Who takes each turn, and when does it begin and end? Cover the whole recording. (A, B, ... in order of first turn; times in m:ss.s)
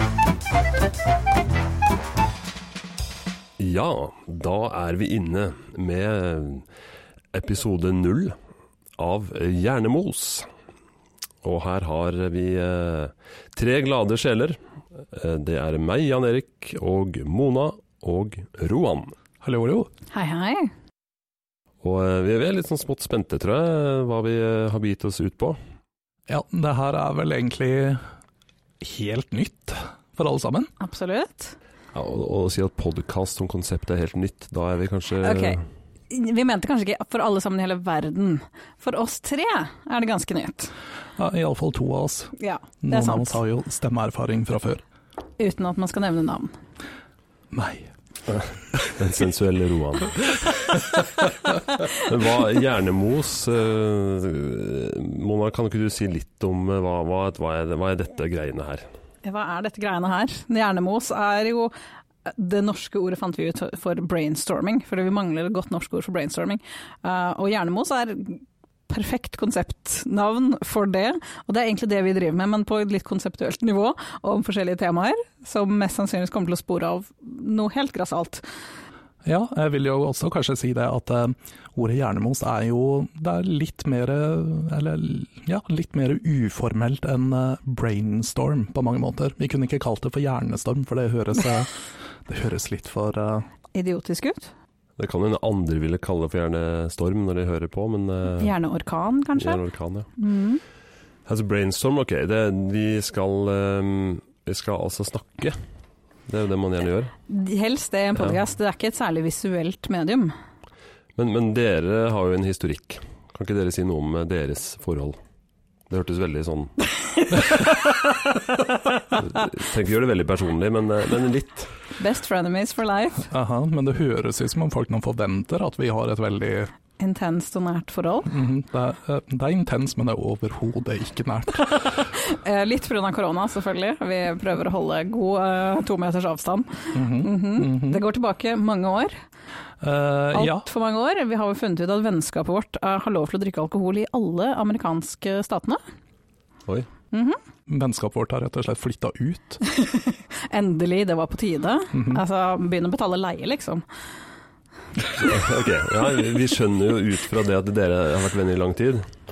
0:03.6-0:06.6 A
0:07.3-0:08.3 A
0:09.0-0:10.5 A
0:11.4-0:19.1 A
0:19.4-0:19.9 B
0:20.1-0:20.7 C
0:21.8-0:25.6 A
0:26.3-0:28.0 B
0:28.8-0:30.7 B
0:30.8-0:31.6 C
0:31.9-0:35.6 A
0:35.2-0:35.6 C
0:36.1-0:40.7 C
0:41.2-0:44.8 B
0:42.4-0:43.4 C
0:45.4-0:46.6 C
0:47.5-0:47.9 B
0:48.3-0:50.3 A
0:51.9-0:58.8 A
0:59.2-1:01.7 C
1:02.2-1:18.4 C
1:19.2-1:33.4 B
1:33.7-1:34.5 C
1:35.0-1:38.5 A
1:38.4-1:39.6 C
1:39.4-1:40.1 A
1:40.2-1:40.6 C
1:41.2-1:45.6 A
1:46.3-1:47.1 A
1:47.3-1:50.3 C
1:51.2-1:55.2 A
1:55.9-1:56.8 A
1:57.3-1:57.6 C
1:59.2-2:01.7 A
2:02.0-2:03.3 C
2:03.3-2:06.7 B
2:07.0-2:08.3 C
2:08.3-2:11.8 B
2:11.9-2:19.1 C
2:16.9-2:18.0 B
2:19.8-2:20.7 B
2:20.3-2:25.8 C
2:27.1-2:27.4 C
2:27.7-2:29.6 B
2:29.6-2:33.8 C
2:31.9-2:32.2 B
2:35.1-2:39.0 A